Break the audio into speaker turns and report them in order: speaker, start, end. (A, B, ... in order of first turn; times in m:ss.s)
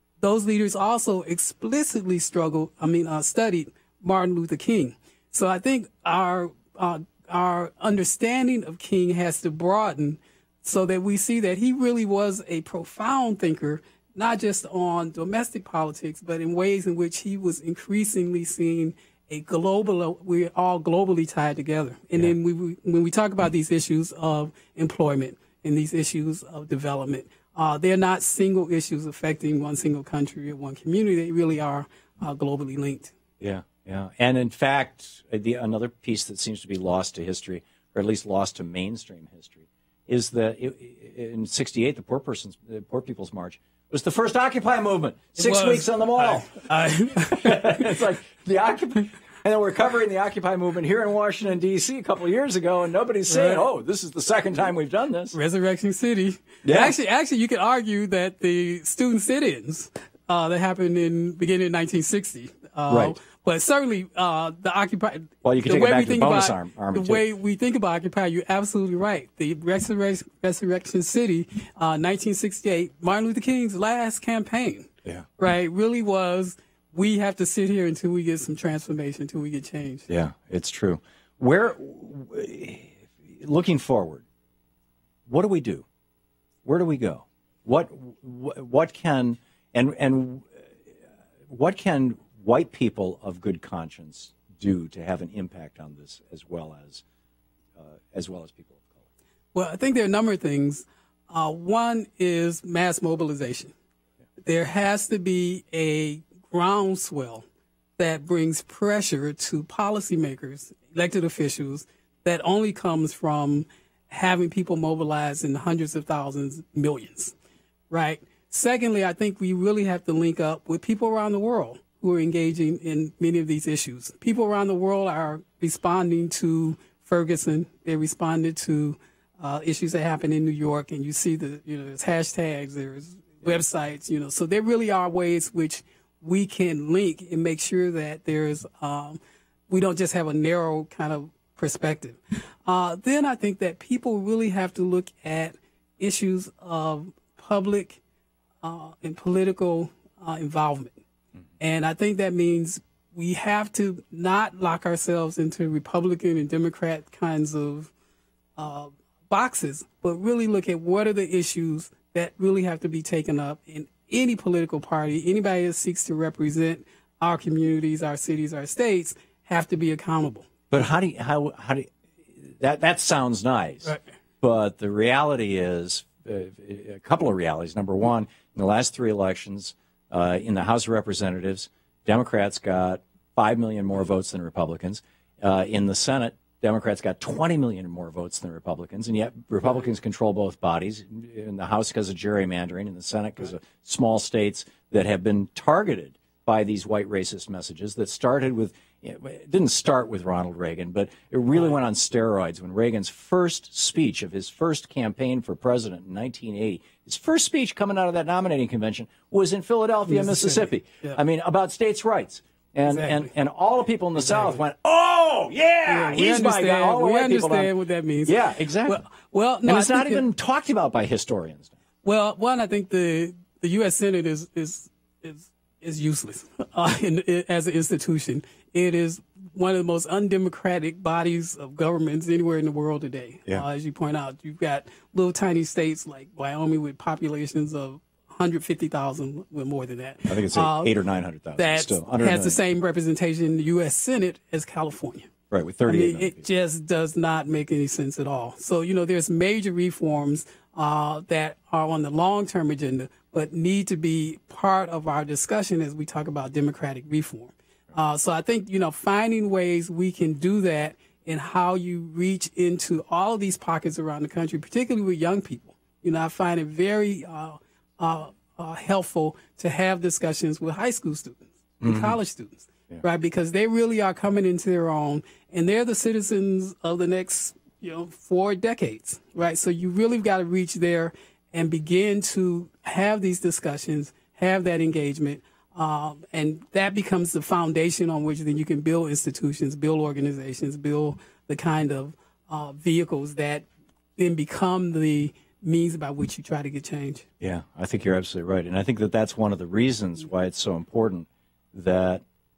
0:00.2-0:33.2 A
0:33.4-0:55.4 B
0:45.4-0:47.9 A
0:53.3-0:53.7 A
0:55.3-1:20.1 A
0:56.6-0:57.0 B
1:02.9-1:03.2 B
1:05.4-1:07.2 B
1:20.1-1:24.2 B
1:25.3-1:25.8 B
1:26.6-1:30.5 B
1:31.5-1:37.0 B
1:37.8-1:39.0 B
1:39.5-1:43.7 A
1:44.4-1:47.4 A
1:48.0-1:57.4 A
1:57.9-2:28.0 A
2:28.6-2:31.0 A
2:31.6-2:37.9 A
2:38.6-2:50.5 A
2:50.7-2:51.9 B
2:52.4-3:37.7 B
3:30.1-3:31.2 A
3:32.9-3:33.3 A
3:34.2-3:34.6 A
3:35.9-3:40.2 A
3:38.3-3:39.0 B
3:39.6-3:41.7 B
3:42.0-4:00.9 A
4:00.3-4:02.6 B
4:01.6-4:05.3 A
4:05.5-4:06.4 B
4:05.9-4:53.7 A
4:31.8-4:32.2 B
4:54.2-4:57.3 A
4:57.4-5:02.2 B